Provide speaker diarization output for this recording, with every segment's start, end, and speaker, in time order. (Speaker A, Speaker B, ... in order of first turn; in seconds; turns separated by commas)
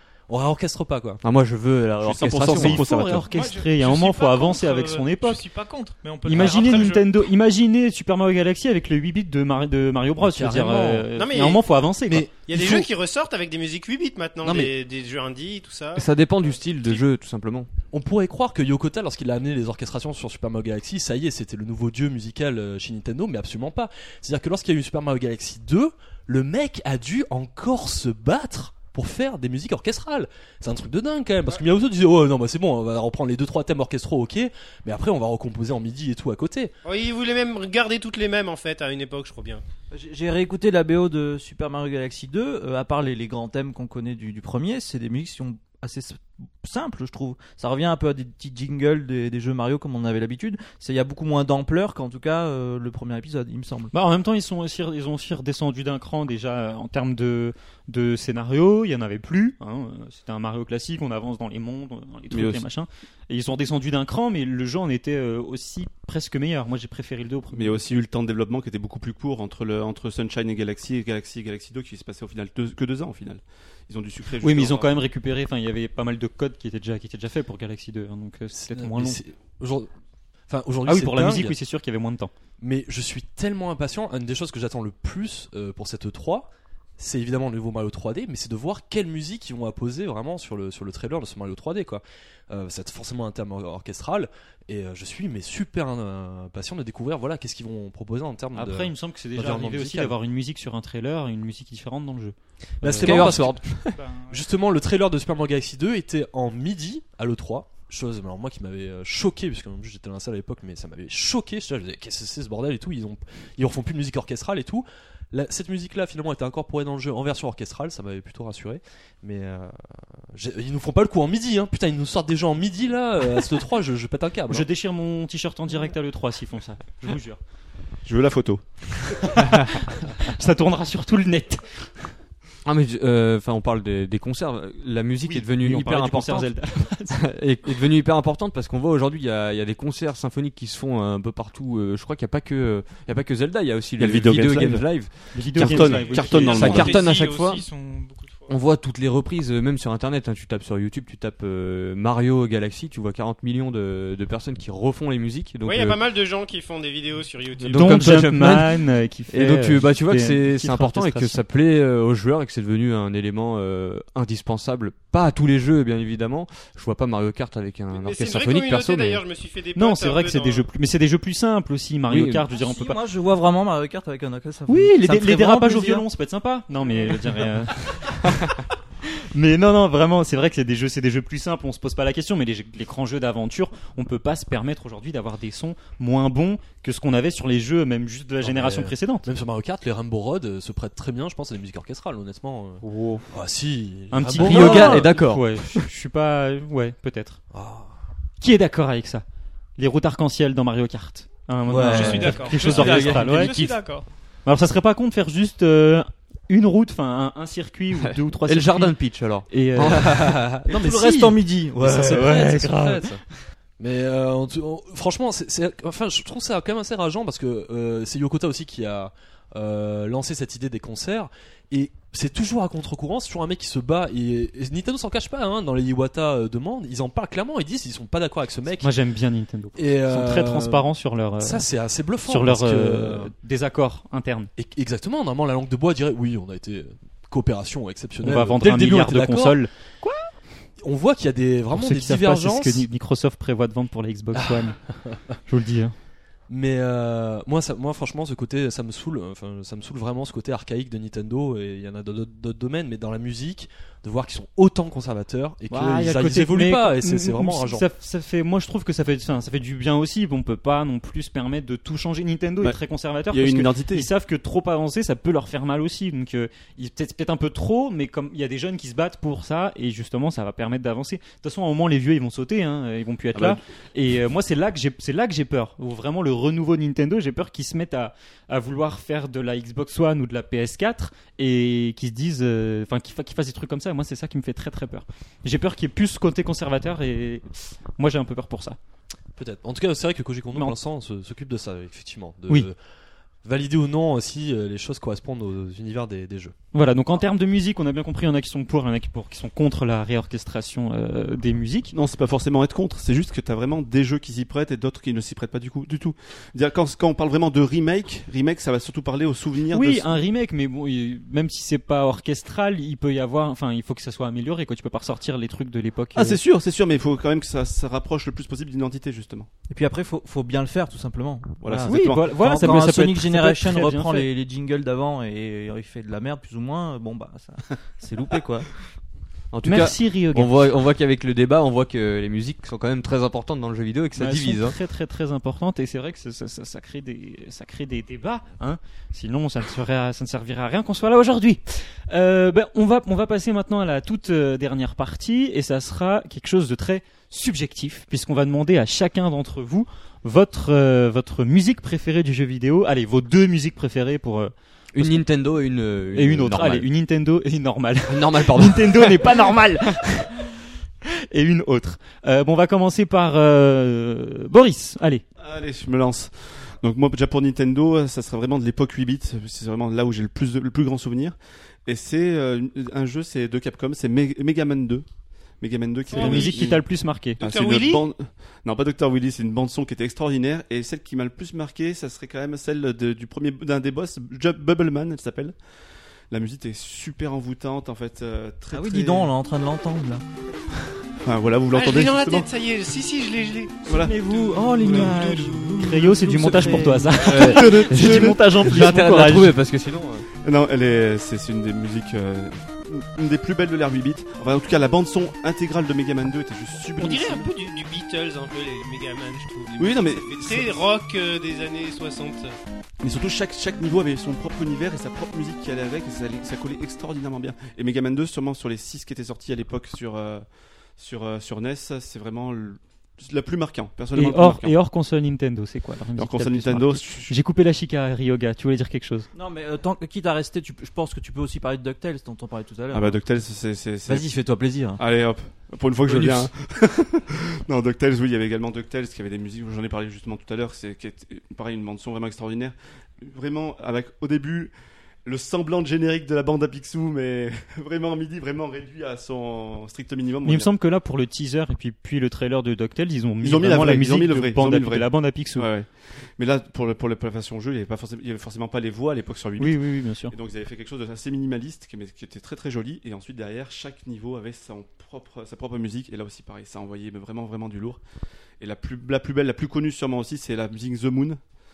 Speaker A: 0.3-1.2, Speaker B: 1.2-3.2, Speaker C: 2.0-3.2, Speaker D: 2.4-5.4, Speaker E: 3.2-7.1, Speaker D: 6.2-12.3, Speaker A: 10.2-11.1, Speaker F: 11.2-11.6, Speaker A: 12.1-12.9, Speaker F: 12.4-17.0, Speaker A: 14.4-14.7, Speaker B: 15.9-17.7, Speaker A: 17.9-36.7, Speaker F: 36.8-39.6, Speaker G: 39.9-53.9, Speaker D: 53.9-67.8, Speaker C: 62.3-62.6, Speaker C: 67.5-74.9, Speaker D: 74.4-79.2, Speaker A: 78.5-79.9, Speaker A: 80.5-81.5, Speaker D: 80.8-82.3, Speaker A: 82.6-100.2, Speaker D: 98.5-103.4, Speaker A: 102.8-124.7, Speaker B: 103.0-104.0, Speaker E: 103.9-104.5, Speaker D: 124.5-127.4, Speaker C: 128.0-129.4, Speaker D: 129.3-132.1, Speaker B: 132.6-136.6, Speaker D: 135.2-137.2, Speaker B: 137.1-145.3, Speaker C: 144.0-147.0, Speaker D: 145.3-147.0, Speaker E: 145.7-148.5, Speaker B: 146.3-147.7, Speaker B: 148.5-156.0, Speaker F: 155.6-158.0, Speaker B: 157.6-169.2, Speaker D: 157.7-161.4, Speaker F: 167.9-170.7, Speaker D: 169.8-173.0, Speaker B: 172.1-172.4, Speaker G: 172.5-176.1, Speaker D: 174.7-178.6, Speaker D: 179.2-189.3, Speaker A: 188.4-195.2, Speaker D: 192.8-193.2, Speaker D: 194.1-197.4, Speaker B: 194.3-195.5, Speaker A: 197.5-197.9, Speaker D: 198.4-199.2, Speaker D: 199.8-203.8, Speaker G: 201.7-202.5, Speaker E: 201.9-204.1, Speaker B: 202.8-203.4, Speaker D: 204.4-210.3, Speaker B: 208.0-210.3, Speaker A: 209.9-213.2, Speaker G: 210.7-212.3, Speaker D: 212.1-213.2, Speaker A: 213.8-228.9, Speaker D: 228.8-231.7, Speaker A: 229.8-230.9, Speaker A: 231.4-233.3, Speaker D: 232.2-234.5, Speaker A: 234.6-239.6, Speaker D: 238.2-240.3, Speaker A: 240.8-242.8, Speaker D: 241.7-245.9, Speaker A: 244.3-245.3, Speaker A: 246.5-257.9, Speaker D: 255.7-288.8, Speaker C: 263.3-264.1, Speaker A: 289.4-292.8, Speaker A: 293.4-296.5, Speaker D: 296.7-301.9, Speaker C: 301.9-310.1, Speaker D: 309.7-316.4, Speaker C: 316.1-319.5, Speaker G: 319.7-328.7, Speaker C: 321.6-322.8, Speaker D: 321.8-324.3, Speaker B: 329.5-334.8, Speaker D: 329.6-330.7, Speaker D: 334.2-355.2, Speaker B: 354.9-356.9, Speaker D: 356.1-360.4, Speaker B: 358.1-359.4, Speaker D: 361.3-365.2, Speaker C: 365.4-375.1, Speaker C: 375.6-376.8, Speaker F: 376.1-376.7, Speaker D: 376.1-377.4, Speaker C: 377.4-385.6, Speaker F: 377.4-378.0, Speaker C: 386.3-389.3, Speaker G: 388.7-390.2, Speaker C: 391.2-392.5, Speaker F: 391.7-396.0, Speaker C: 393.9-394.2, Speaker G: 393.9-397.6, Speaker C: 394.8-395.2, Speaker D: 395.8-399.6, Speaker B: 397.2-400.2, Speaker C: 397.3-398.7, Speaker C: 400.4-407.5, Speaker F: 407.0-412.6, Speaker C: 409.8-410.8, Speaker C: 413.0-420.4, Speaker C: 421.0-424.7, Speaker D: 424.1-429.3, Speaker C: 426.2-427.3, Speaker G: 429.3-433.2, Speaker C: 432.9-434.3, Speaker G: 434.1-435.0, Speaker C: 435.0-444.7, Speaker C: 445.2-450.7, Speaker D: 450.4-455.7, Speaker C: 453.4-468.0, Speaker D: 459.6-460.3, Speaker C: 468.6-471.4